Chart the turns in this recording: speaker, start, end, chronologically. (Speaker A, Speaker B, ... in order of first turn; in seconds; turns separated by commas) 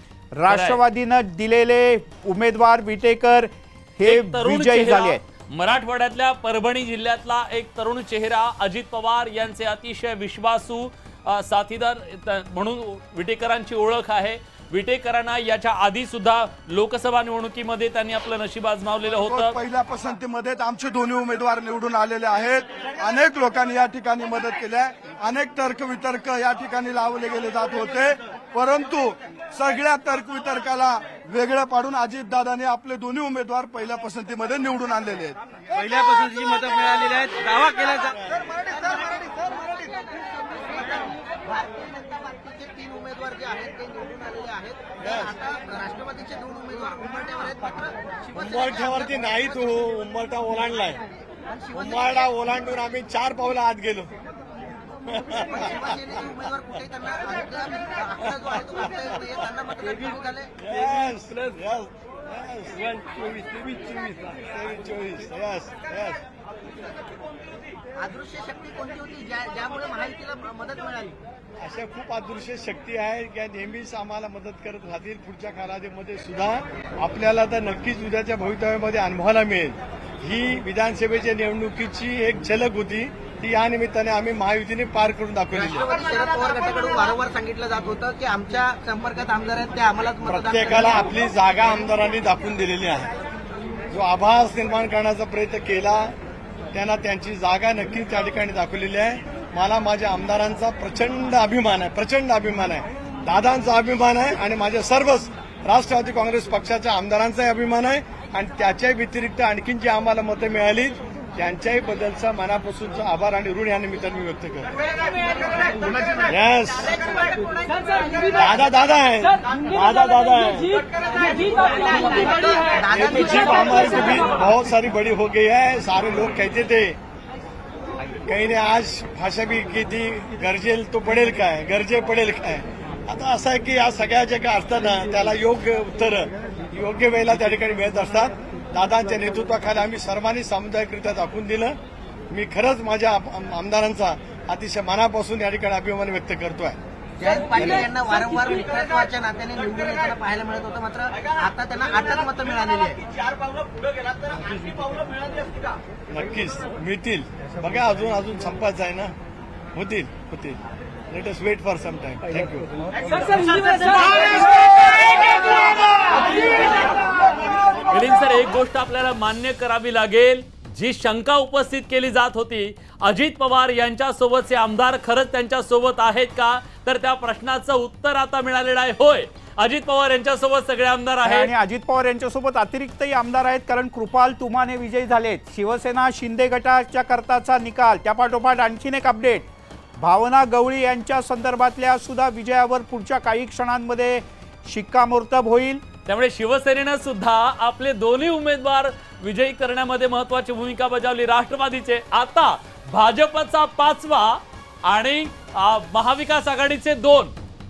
Speaker A: 0.4-5.2, Speaker B: 0.5-0.8, Speaker B: 4.0-19.6, Speaker C: 19.2-35.4, Speaker D: 35.8-36.1, Speaker E: 35.8-38.0, Speaker F: 36.5-37.1, Speaker D: 38.0-38.5, Speaker F: 38.5-49.8, Speaker D: 45.0-45.4, Speaker D: 48.3-51.0, Speaker F: 51.4-52.3, Speaker D: 51.7-54.1, Speaker D: 55.1-56.3, Speaker F: 55.3-60.6, Speaker D: 58.3-59.1, Speaker D: 60.6-66.2, Speaker F: 68.0-71.2, Speaker D: 71.6-86.0, Speaker F: 85.5-91.0, Speaker D: 90.2-93.1, Speaker D: 93.9-96.2, Speaker D: 96.7-114.8, Speaker D: 116.2-117.1, Speaker F: 117.0-118.5, Speaker D: 118.3-120.8, Speaker F: 121.4-124.1, Speaker D: 122.9-127.0, Speaker D: 128.3-141.8, Speaker D: 142.3-146.8, Speaker F: 147.2-153.1, Speaker D: 156.1-159.1, Speaker D: 159.7-164.3, Speaker B: 167.9-181.5, Speaker A: 181.2-195.8, Speaker B: 196.1-207.3